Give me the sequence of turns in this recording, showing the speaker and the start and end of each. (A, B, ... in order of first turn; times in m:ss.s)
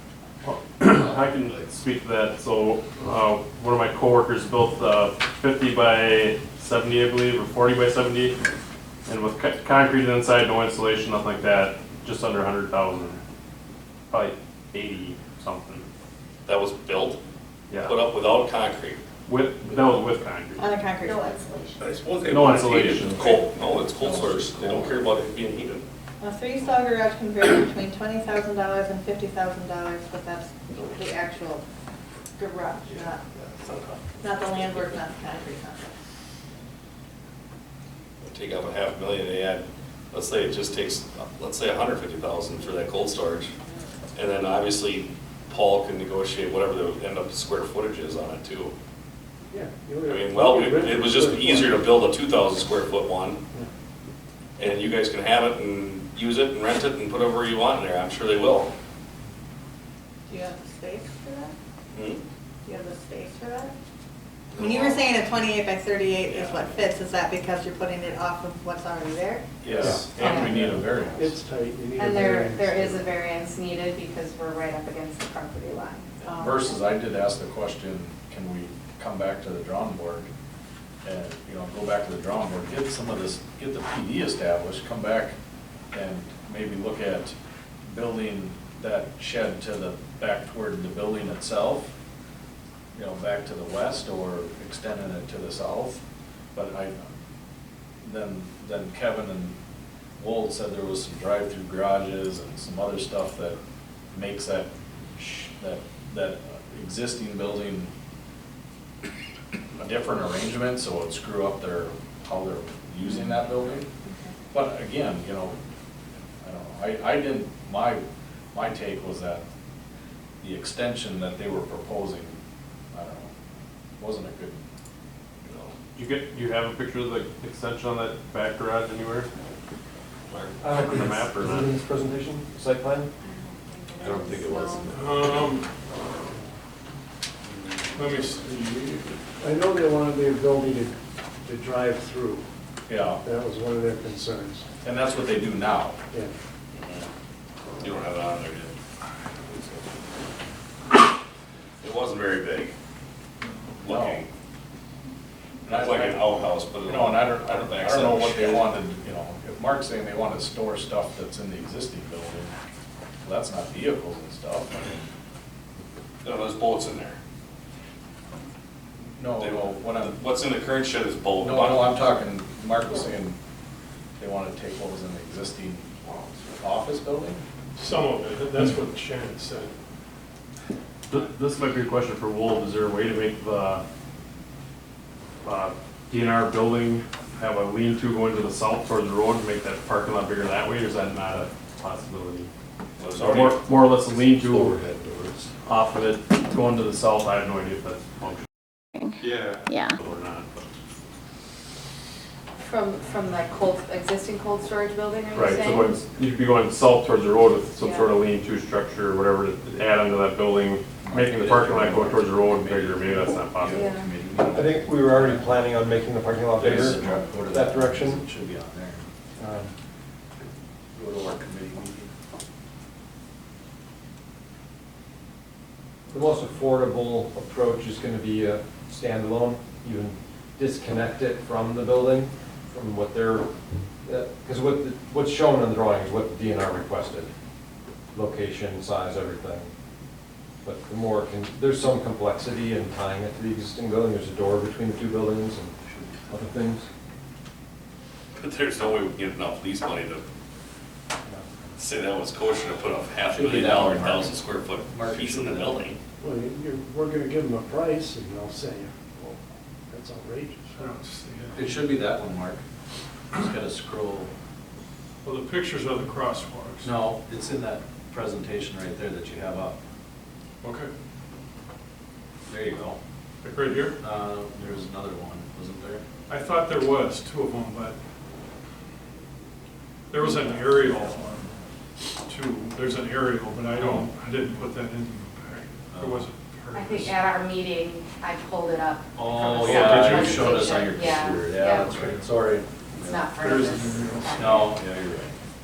0:00.4-0:08.4 A
0:01.0-0:01.6 B
0:09.0-0:13.2 A
0:14.1-0:15.8 A
0:16.4-0:17.2 B
0:17.7-0:17.9 A
0:17.8-0:19.0 B
0:19.3-0:20.7 A
0:20.6-0:21.8 C
0:21.8-0:25.8 B
0:22.2-0:23.4 A
0:23.3-0:25.1 D
0:26.2-0:31.6 C
0:32.4-0:33.2 C
0:32.9-0:34.9 B
0:34.2-0:35.9 C
0:38.2-0:43.5 B
0:44.1-0:48.7 B
0:49.5-0:52.0 E
0:50.0-0:53.4 B
0:54.6-0:58.7 B
1:00.3-1:01.5 C
1:01.9-1:02.2 B
1:02.6-1:03.7 C
1:04.5-1:05.2 B
1:04.6-1:09.4 C
1:06.2-1:06.7 B
1:09.6-1:11.4 D
1:09.7-1:10.1 B
1:10.2-1:11.0 C
1:10.6-1:13.1 E
1:12.0-1:16.7 F
1:16.4-1:20.3 D
1:21.0-1:25.3 D
1:25.9-1:27.3 D
1:27.9-1:31.9 D
1:32.9-1:36.0 D
1:36.5-1:37.0 D
1:38.0-1:39.6 D
1:40.2-1:43.6 D
1:44.1-1:47.9 D
1:49.8-1:53.9 D
1:54.0-1:54.3 F
1:54.5-1:55.6 D
1:56.4-1:59.4 D
2:00.4-2:02.4 D
2:02.9-2:03.3 D
2:04.0-2:04.6 D
2:05.4-2:05.7 B
2:05.9-2:09.3 A
2:10.3-2:10.6 B
2:10.6-2:13.1 G
2:10.8-2:11.7 A
2:13.2-2:15.1 F
2:14.0-2:15.0 B
2:14.9-2:15.7 H
2:17.5-2:17.8 B
2:17.9-2:19.2 H
2:19.4-2:22.4 E
2:22.9-2:23.2 D
2:23.2-2:24.6 E
2:24.8-2:26.0 D
2:26.1-2:26.4 E
2:26.7-2:27.0 B
2:27.8-2:28.7 B
2:29.5-2:29.7 B
2:31.8-2:32.7 B
2:33.8-2:34.3 B
2:33.8-2:34.2 D
2:35.6-2:36.3 D
2:35.7-2:38.7 B
2:36.8-2:42.5 D
2:43.2-2:45.1 D
2:46.2-2:47.2 B
2:49.2-2:50.1 D
2:49.4-2:52.0 B
2:51.4-2:53.4 D
2:54.2-2:55.9 D
2:56.5-2:57.4 D
2:57.8-2:59.7 H
3:01.1-3:03.8 A
3:05.4-3:12.5 A
3:13.0-3:13.6 B
3:13.2-3:14.8 A
3:14.4-3:15.5 D
3:15.6-3:18.4 A
3:20.0-3:20.6 A
3:22.6-3:25.9 F
3:25.3-3:33.8 A
3:27.8-3:28.1 F
3:31.0-3:35.6 D
3:33.6-3:34.1 F
3:34.5-3:38.2 G
3:36.6-3:39.0 D
3:39.4-3:39.7 G
3:40.9-3:42.1 D
3:46.1-3:53.5 G
3:54.0-3:57.3 G
3:58.1-3:59.7 G
4:00.6-4:05.7 G
4:06.3-4:06.9 G
4:08.3-4:10.2 B
4:11.8-4:16.0 B
4:13.3-4:14.3 D
4:14.9-4:15.8 D
4:16.2-4:19.0 E
4:19.9-4:20.9 E
4:20.8-4:21.8 H
4:21.5-4:22.6 D
4:23.3-4:24.3 D
4:25.2-4:26.9 H
4:26.8-4:29.8 D
4:30.6-4:30.9 H
4:32.5-4:33.0 D
4:33.4-4:34.0 H
4:34.0-4:36.0 D
4:36.3-4:38.0 H
4:40.1-4:41.4 H
4:40.4-4:41.0 D
4:42.3-4:47.2 H
4:45.9-4:46.3 D
4:46.7-4:52.2 F
4:49.2-4:53.3 D
4:49.6-4:50.5 H
4:53.0-4:54.7 F
4:53.4-4:54.8 H
4:54.3-4:55.3 D